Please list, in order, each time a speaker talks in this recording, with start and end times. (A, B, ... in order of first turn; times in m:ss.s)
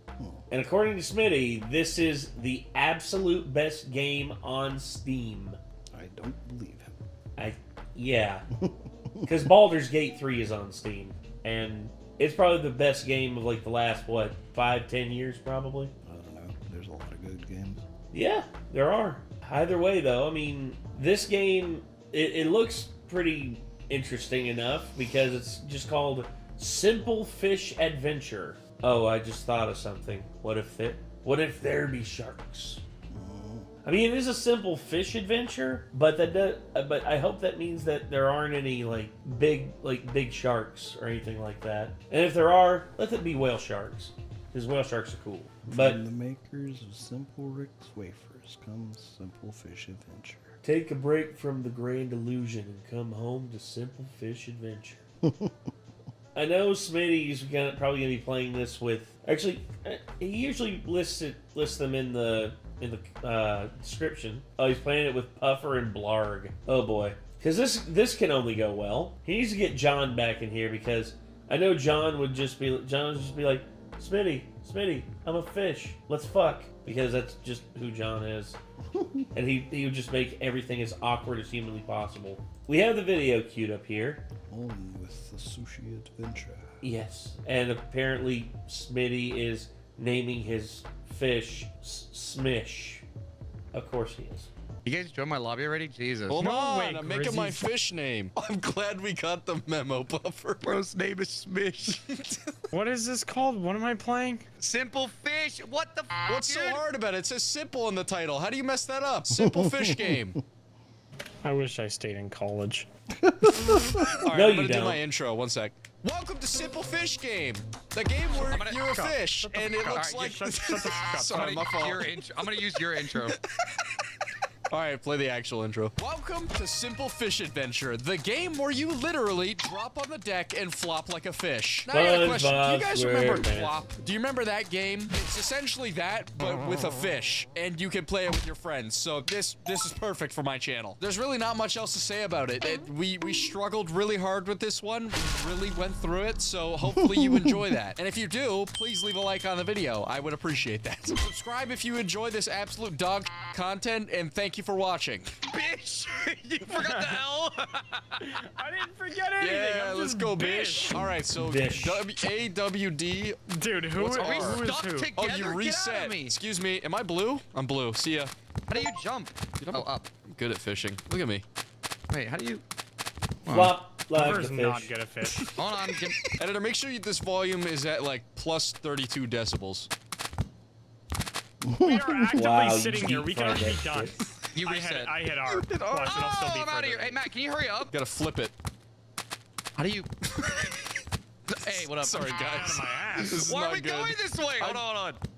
0:00.2-0:00.5 A
0:00.5-0:05.6 B
0:05.9-0:07.0 A
0:07.4-0:08.4 B
0:08.6-0:09.3 A
0:09.2-0:15.9 B
0:16.0-0:17.8 A
0:18.1-0:32.8 B
0:33.1-0:33.7 A
0:33.8-0:46.0 B
0:45.7-0:50.6 A
0:50.6-0:55.0 B
0:55.2-0:55.5 A
0:56.4-1:18.6 B
1:19.3-1:24.3 B
1:24.5-1:26.8 A
1:26.8-1:33.0 B
1:33.7-1:34.5 B
1:34.8-1:36.4 C
1:36.3-1:40.6 D
1:36.4-1:37.7 E
1:40.6-1:42.0 C
1:42.1-1:42.4 D
1:42.7-1:44.4 E
1:44.6-1:46.9 C
1:46.3-1:50.4 D
1:49.4-1:50.2 A
1:51.4-1:52.9 E
1:53.2-1:54.0 A
1:53.6-2:03.6 D
1:54.3-1:55.0 B
1:58.5-1:58.9 C
1:58.9-2:01.8 E
1:59.9-2:00.4 C
2:01.2-2:03.4 C
2:04.7-2:35.3 D
2:11.9-2:13.8 B
2:27.0-2:27.6 A
2:35.5-2:38.2 C
2:36.7-2:37.2 E
2:38.2-2:41.1 E
2:39.4-2:43.4 D
2:41.3-2:42.1 B
2:43.5-2:45.1 E
2:43.9-2:44.6 D
2:44.2-2:46.4 C
2:45.2-2:48.3 D
2:48.7-2:50.1 C
2:49.6-2:51.4 D
2:52.1-2:52.6 C
2:53.4-2:53.8 C
2:53.5-2:54.9 B
2:54.1-2:55.5 E
2:55.3-2:59.9 D
2:55.6-2:56.3 C
3:01.6-3:02.4 A
3:01.8-3:07.2 E
3:02.3-3:04.2 B
3:04.5-3:05.1 C
3:05.5-3:06.5 D
3:06.1-3:07.9 C
3:07.8-3:08.5 D
3:09.8-3:10.6 C
3:10.3-3:10.8 D
3:11.5-3:12.5 C
3:11.6-3:14.8 D
3:12.3-3:13.4 E
3:13.2-3:15.2 C